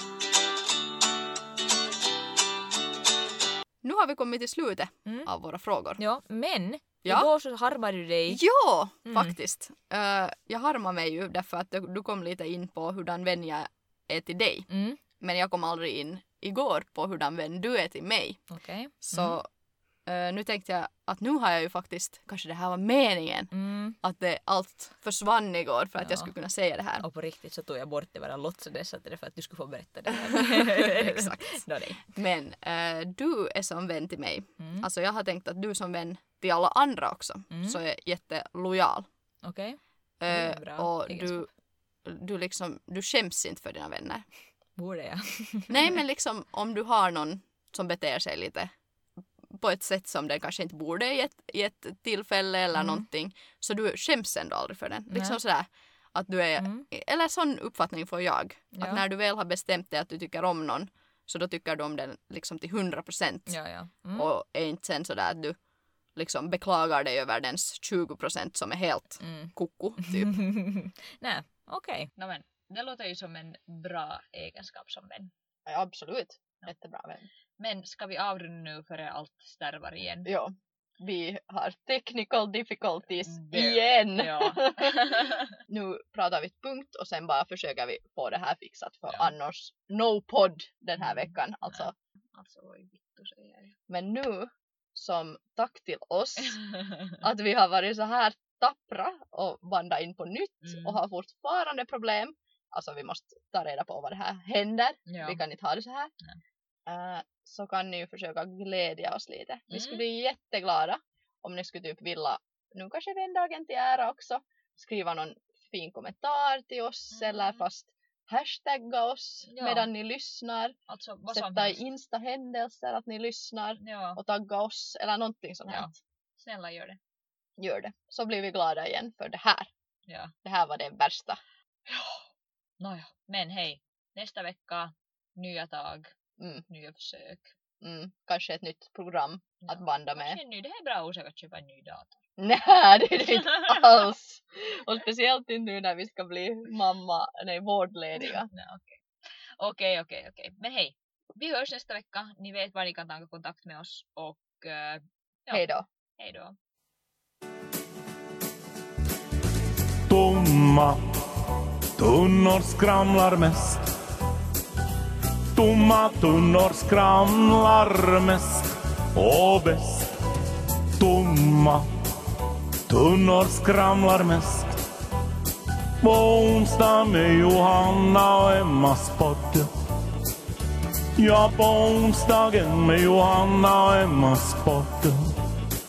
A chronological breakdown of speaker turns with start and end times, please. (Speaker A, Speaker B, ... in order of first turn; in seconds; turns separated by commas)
Speaker A: 3.8-6.0, Speaker B: 6.0-8.4, Speaker A: 8.3-18.4, Speaker B: 9.1-9.3, Speaker B: 14.7-15.0, Speaker B: 18.5-19.4, Speaker A: 19.0-19.5, Speaker A: 20.1-27.0, Speaker B: 23.5-23.9, Speaker B: 26.0-26.3, Speaker B: 27.0-32.1, Speaker A: 30.1-39.1, Speaker B: 34.6-34.9, Speaker B: 37.5-37.8, Speaker B: 39.4-41.5, Speaker A: 40.2-41.5, Speaker A: 42.0-44.3, Speaker B: 44.8-46.0, Speaker A: 45.7-48.7, Speaker A: 49.5-63.5, Speaker B: 52.7-53.0, Speaker B: 55.1-55.4, Speaker B: 56.6-56.9, Speaker B: 58.7-59.0, Speaker B: 63.5-64.3, Speaker A: 64.1-65.5, Speaker A: 66.2-70.4, Speaker B: 69.2-75.3, Speaker A: 75.7-77.3, Speaker B: 77.6-80.3, Speaker A: 80.2-91.9, Speaker B: 83.2-85.6, Speaker B: 91.0-93.8, Speaker A: 93.9-96.6, Speaker B: 96.5-97.2, Speaker A: 97.2-106.1, Speaker B: 100.6-101.0, Speaker B: 105.1-105.4, Speaker A: 106.9-120.7, Speaker B: 109.7-110.0, Speaker B: 117.1-117.6, Speaker B: 119.5-119.9, Speaker B: 120.9-121.8, Speaker A: 121.3-125.9, Speaker B: 123.8-124.2, Speaker B: 125.7-127.0, Speaker A: 127.6-129.7, Speaker B: 130.1-130.3, Speaker A: 130.4-131.4, Speaker B: 131.9-132.2, Speaker B: 132.8-136.1, Speaker A: 136.4-136.6, Speaker B: 136.7-137.5, Speaker A: 137.8-140.4, Speaker B: 139.6-142.2, Speaker A: 142.4-148.5, Speaker B: 143.5-143.8, Speaker B: 148.5-149.0, Speaker B: 149.6-155.6, Speaker A: 155.5-155.8, Speaker B: 156.2-156.5, Speaker C: 160.1-161.0, Speaker C: 162.0-163.8, Speaker C: 165.5-170.2, Speaker C: 171.0-171.8, Speaker C: 172.9-174.8, Speaker C: 176.0-179.7, Speaker C: 181.2-185.3